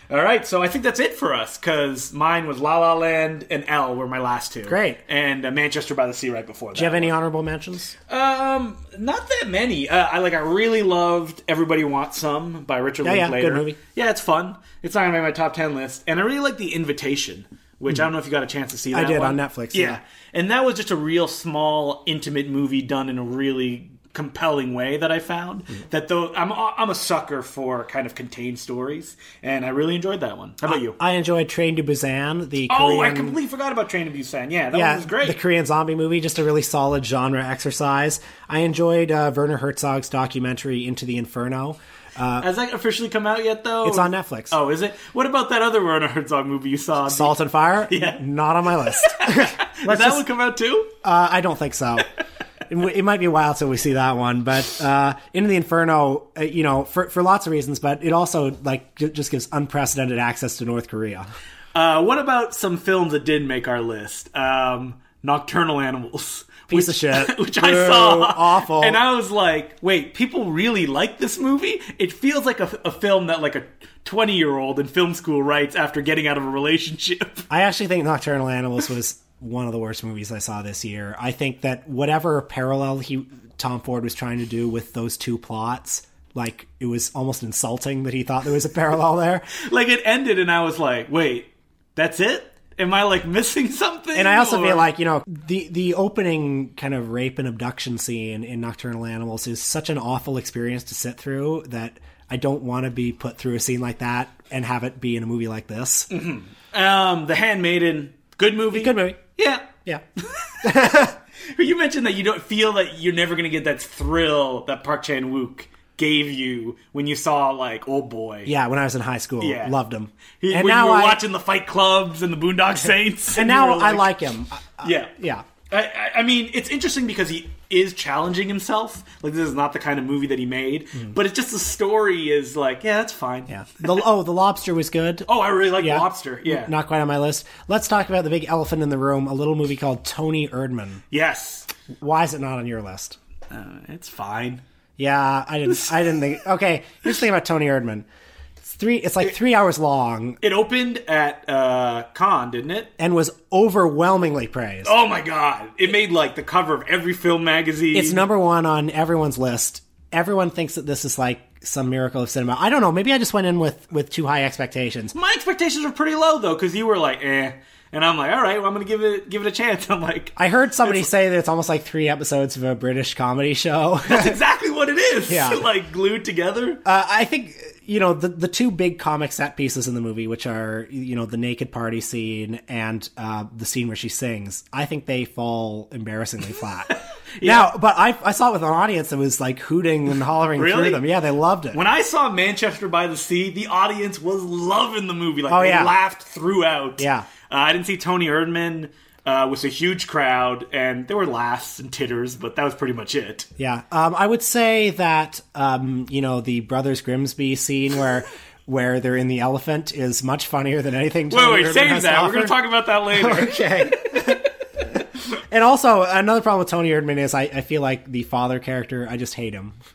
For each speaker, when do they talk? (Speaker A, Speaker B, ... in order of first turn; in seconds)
Speaker A: 0.1-7.1, 8.1-31.0, 32.7-35.4, 42.4-48.2, 48.9-50.9, 61.7-77.5, 89.6-94.9, 106.1-118.5, 119.4-119.8, 120.4-124.1, 124.8-125.1, 125.7-134.0, 135.3-136.7, 141.1-141.7, 143.5-144.6, 150.4-152.9, 154.8-158.2, 165.1-171.1, 174.1-176.8, 186.9-187.7, 190.6-191.0, 191.7-203.5, 211.3-214.4
Speaker B: 4.7-5.0, 6.7-7.9, 13.0-13.8, 18.9-20.0, 30.6-33.4, 34.7-42.5, 43.8-44.5, 47.1-50.2, 51.0-52.1, 52.7-61.2, 66.7-69.0, 77.5-89.5, 94.1-106.1, 108.7-109.2, 109.7-110.0, 110.6-111.1, 118.5-121.2, 123.3-125.5, 133.5-141.0, 142.0-143.2, 145.0-148.0, 148.6-150.4, 153.0-154.9, 157.9-165.1, 170.3-174.4, 175.3-175.6, 176.8-186.9, 187.4-191.8, 195.5-195.9, 197.0-197.3, 203.6-212.6, 213.1-214.4, 214.9-219.7